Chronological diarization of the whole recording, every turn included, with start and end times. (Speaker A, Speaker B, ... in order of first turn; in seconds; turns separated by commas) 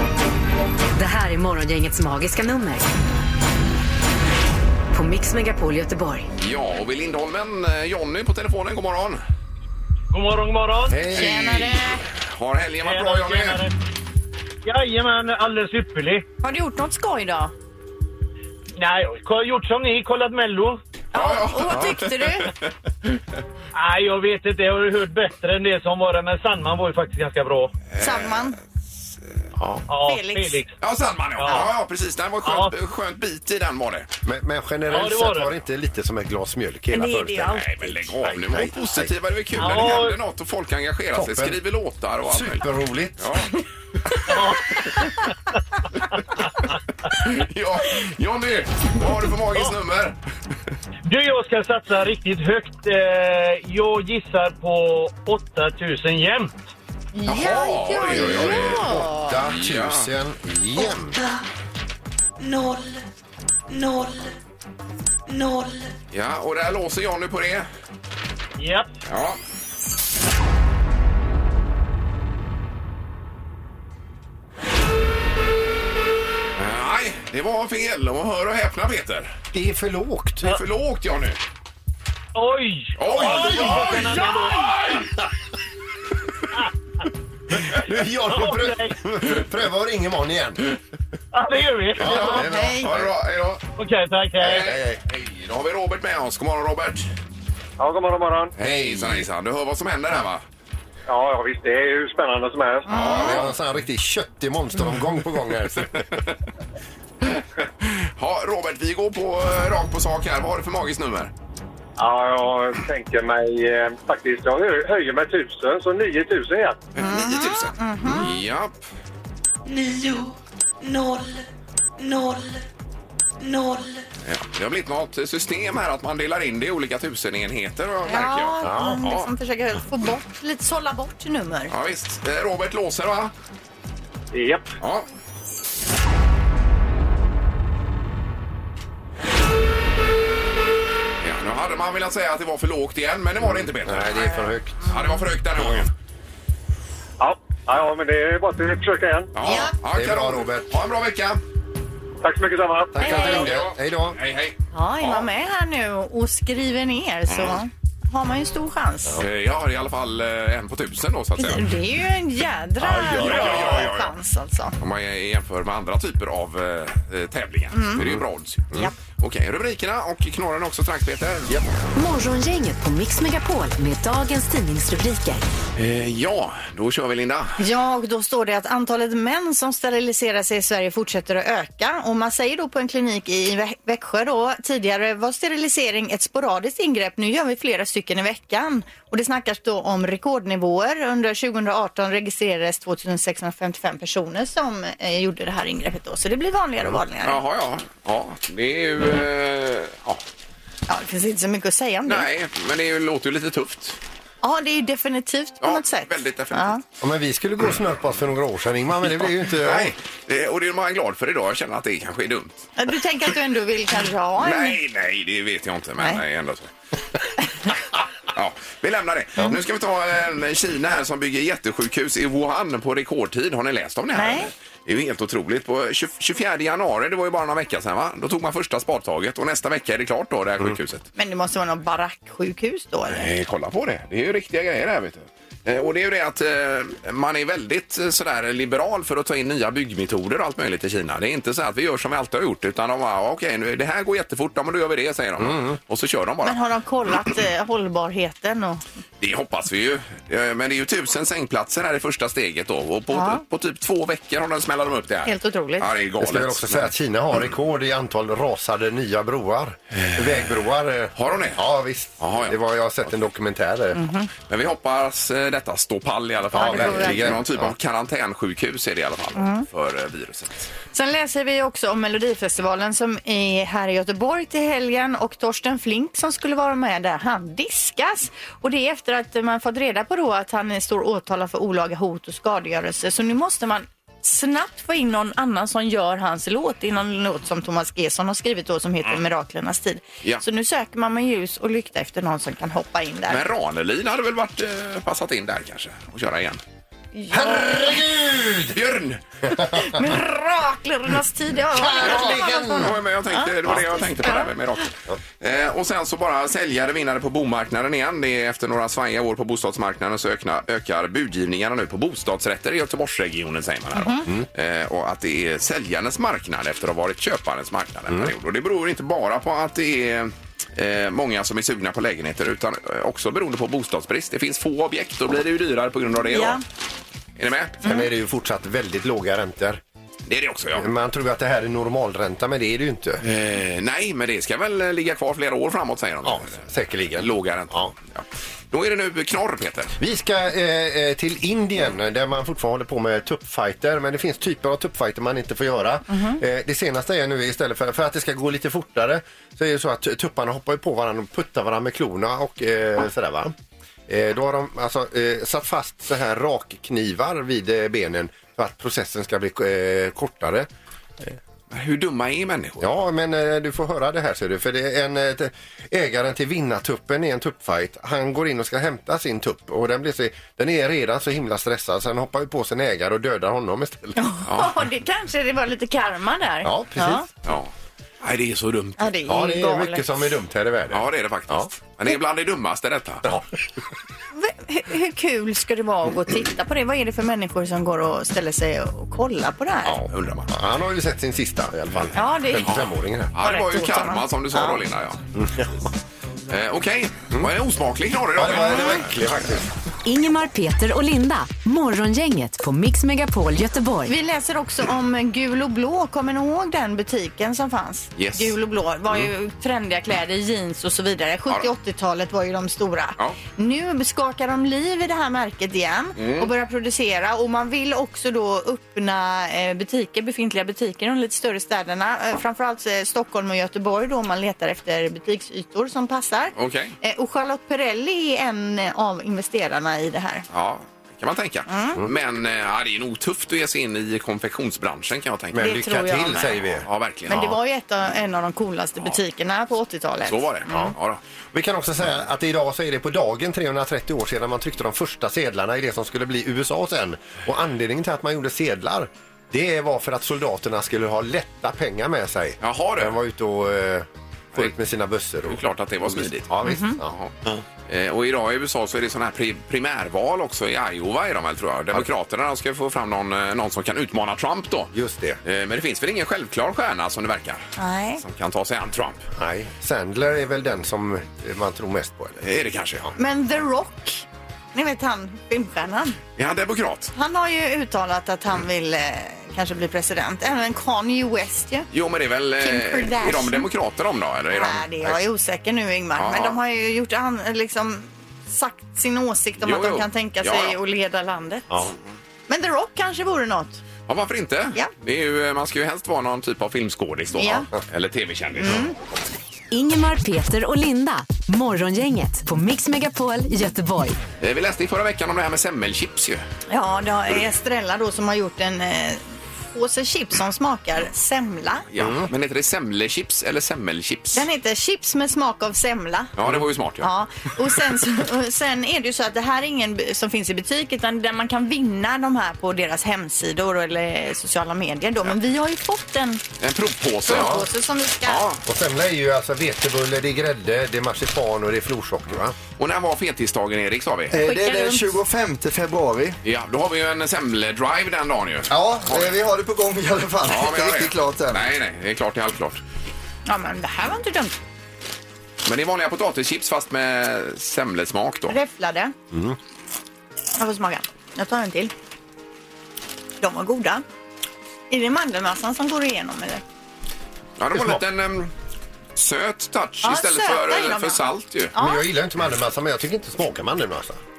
Speaker A: 0.9-2.9, Speaker A: 4.9-6.3, Speaker B: 6.4-9.2, Speaker C: 10.1-11.0, Speaker D: 10.9-11.6, Speaker E: 11.1-12.0, Speaker B: 11.2-13.6, Speaker C: 12.8-13.7, Speaker C: 14.7-16.2, Speaker E: 16.4-17.5, Speaker C: 18.8-20.8, Speaker E: 21.1-22.5, Speaker B: 21.1-22.7, Speaker C: 23.7-27.7, Speaker B: 27.9-28.5, Speaker E: 28.0-28.6, Speaker D: 29.6-29.9, Speaker C: 29.9-30.8, Speaker E: 29.9-30.6, Speaker B: 30.8-34.1, Speaker C: 31.4-31.7, Speaker C: 32.4-32.7, Speaker D: 34.2-39.1, Speaker C: 34.9-35.5, Speaker E: 36.9-38.0, Speaker B: 37.5-42.7, Speaker C: 39.6-40.2, Speaker D: 41.1-41.6, Speaker D: 42.3-43.3, Speaker B: 43.2-43.5, Speaker C: 44.3-44.7, Speaker B: 47.1-50.2, Speaker C: 51.1-56.6, Speaker E: 57.1-59.4, Speaker B: 57.2-60.1, Speaker D: 58.1-61.2, Speaker F: 62.4-63.0, Speaker F: 63.7-64.3, Speaker F: 65.3-65.9, Speaker B: 66.1-67.7, Speaker C: 68.6-68.9, Speaker B: 69.1-69.4, Speaker B: 76.6-79.4, Speaker D: 79.5-80.6, Speaker B: 80.4-81.4, Speaker C: 82.3-85.0, Speaker B: 83.0-85.1, Speaker D: 83.1-85.0, Speaker D: 87.7-90.7, Speaker C: 88.3-89.0, Speaker C: 91.3-92.5, Speaker D: 92.0-93.1, Speaker B: 92.1-93.6, Speaker E: 92.2-92.9, Speaker C: 93.8-94.7, Speaker B: 94.4-97.1, Speaker D: 94.5-95.0, Speaker G: 97.8-98.5, Speaker B: 98.6-100.4, Speaker D: 98.6-99.3, Speaker G: 101.1-102.9, Speaker E: 102.9-103.4, Speaker B: 102.9-103.5, Speaker D: 103.1-106.0, Speaker B: 106.0-106.3, Speaker B: 107.2-111.3, Speaker G: 112.0-116.9, Speaker B: 117.0-118.7, Speaker E: 117.0-118.3, Speaker F: 119.7-121.5, Speaker F: 122.0-122.6, Speaker F: 123.4-124.1, Speaker B: 124.2-129.3, Speaker E: 128.1-131.7, Speaker D: 128.6-129.1, Speaker B: 131.7-133.3, Speaker G: 134.3-134.7, Speaker B: 134.8-135.1, Speaker B: 141.2-144.3, Speaker D: 143.4-144.9, Speaker B: 144.9-145.9, Speaker G: 147.2-149.3, Speaker B: 149.3-151.4, Speaker E: 149.4-149.7, Speaker D: 149.9-150.7, Speaker G: 152.2-153.1, Speaker D: 152.9-154.2, Speaker B: 153.0-155.3, Speaker E: 153.0-153.5, Speaker E: 154.7-159.2, Speaker B: 157.3-157.6, Speaker B: 159.2-161.7, Speaker E: 161.4-164.7, Speaker B: 162.9-164.1, Speaker D: 163.1-163.8, Speaker B: 164.8-171.6, Speaker E: 167.7-168.0, Speaker A: 171.9-175.4, Speaker B: 175.8-177.6, Speaker E: 177.6-197.4, Speaker B: 197.2-200.2, Speaker E: 200.9-202.3, Speaker B: 202.1-204.0, Speaker E: 204.4-206.8, Speaker B: 205.6-206.8, Speaker D: 207.0-209.9, Speaker B: 209.5-212.7, Speaker E: 212.8-214.8, Speaker B: 214.4-216.7, Speaker B: 218.3-231.1, Speaker E: 224.2-224.5, Speaker E: 231.2-233.3, Speaker B: 233.1-246.6, Speaker D: 245.4-245.8, Speaker E: 246.4-248.8, Speaker B: 249.2-256.9, Speaker E: 253.1-253.4, Speaker E: 255.2-255.9, Speaker D: 256.2-264.0, Speaker B: 260.0-260.4, Speaker B: 261.2-261.6, Speaker B: 262.2-262.6, Speaker E: 263.9-264.3, Speaker B: 264.5-270.7, Speaker E: 266.5-267.4, Speaker D: 266.5-267.8, Speaker E: 269.4-269.6, Speaker E: 270.9-293.4, Speaker B: 293.3-296.6, Speaker E: 297.1-298.0, Speaker D: 297.3-298.8, Speaker B: 298.7-299.2, Speaker D: 299.5-299.9, Speaker E: 299.7-304.5, Speaker D: 301.8-302.9, Speaker B: 302.0-326.6, Speaker E: 313.9-314.3, Speaker E: 326.3-326.6, Speaker B: 327.4-327.8, Speaker D: 327.8-329.8, Speaker B: 330.3-330.9, Speaker D: 330.7-333.2, Speaker B: 333.2-340.0, Speaker D: 336.2-337.9, Speaker D: 340.0-353.5, Speaker E: 346.1-346.4, Speaker D: 354.1-360.7, Speaker B: 361.7-362.9, Speaker D: 362.8-374.2, Speaker E: 374.2-377.3, Speaker B: 374.5-374.8, Speaker D: 376.6-377.3, Speaker B: 377.4-379.1, Speaker E: 379.0-380.1, Speaker D: 379.3-381.7, Speaker B: 380.9-383.3, Speaker E: 384.3-390.0, Speaker D: 389.9-393.3, Speaker B: 390.1-390.5, Speaker E: 392.1-392.8, Speaker B: 392.7-395.2, Speaker E: 393.4-394.7, Speaker D: 395.3-395.9, Speaker B: 396.5-399.1, Speaker D: 398.4-399.7, Speaker A: 400.1-404.1, Speaker E: 404.1-430.4, Speaker B: 408.2-408.6, Speaker B: 416.2-416.5, Speaker B: 426.6-426.9, Speaker B: 430.5-435.8, Speaker E: 431.7-432.0, Speaker D: 435.5-436.9, Speaker E: 435.6-436.6, Speaker B: 436.8-437.6, Speaker E: 437.3-440.9, Speaker B: 440.3-441.2, Speaker D: 440.7-440.9, Speaker D: 441.5-457.2, Speaker B: 452.6-453.1, Speaker B: 455.5-457.3, Speaker E: 456.6-457.0, Speaker B: 457.9-464.9, Speaker D: 464.9-465.4, Speaker B: 465.4-467.7, Speaker E: 467.8-468.2, Speaker B: 468.2-469.2, Speaker D: 469.4-472.4, Speaker B: 472.4-473.1, Speaker E: 473.2-476.2, Speaker B: 476.4-477.1, Speaker E: 477.1-481.9, Speaker B: 481.9-485.2, Speaker E: 482.6-483.7, Speaker E: 484.5-491.7, Speaker B: 486.2-486.6, Speaker B: 489.6-490.8, Speaker E: 492.5-493.8, Speaker B: 494.1-498.9, Speaker E: 497.4-497.7, Speaker E: 498.6-498.9, Speaker A: 499.7-504.2, Speaker B: 504.4-506.4, Speaker E: 506.7-511.9, Speaker B: 511.9-514.5, Speaker D: 512.0-512.3, Speaker E: 514.3-516.3, Speaker B: 516.4-517.1, Speaker E: 517.0-526.4, Speaker B: 526.6-527.7, Speaker E: 527.2-528.5, Speaker B: 528.2-528.6, Speaker D: 528.7-532.6, Speaker B: 532.8-534.4, Speaker H: 534.3-536.4, Speaker E: 534.4-535.1, Speaker B: 536.4-539.3, Speaker H: 538.7-541.6, Speaker B: 540.5-542.8, Speaker E: 543.5-544.5, Speaker B: 545.6-548.6, Speaker E: 548.5-549.1, Speaker D: 549.3-549.6, Speaker E: 550.5-551.9, Speaker E: 553.4-554.0, Speaker E: 554.9-556.6, Speaker B: 557.6-558.5, Speaker D: 557.7-558.0, Speaker B: 559.2-561.7, Speaker E: 560.0-561.2, Speaker E: 561.7-562.0, Speaker D: 561.8-564.2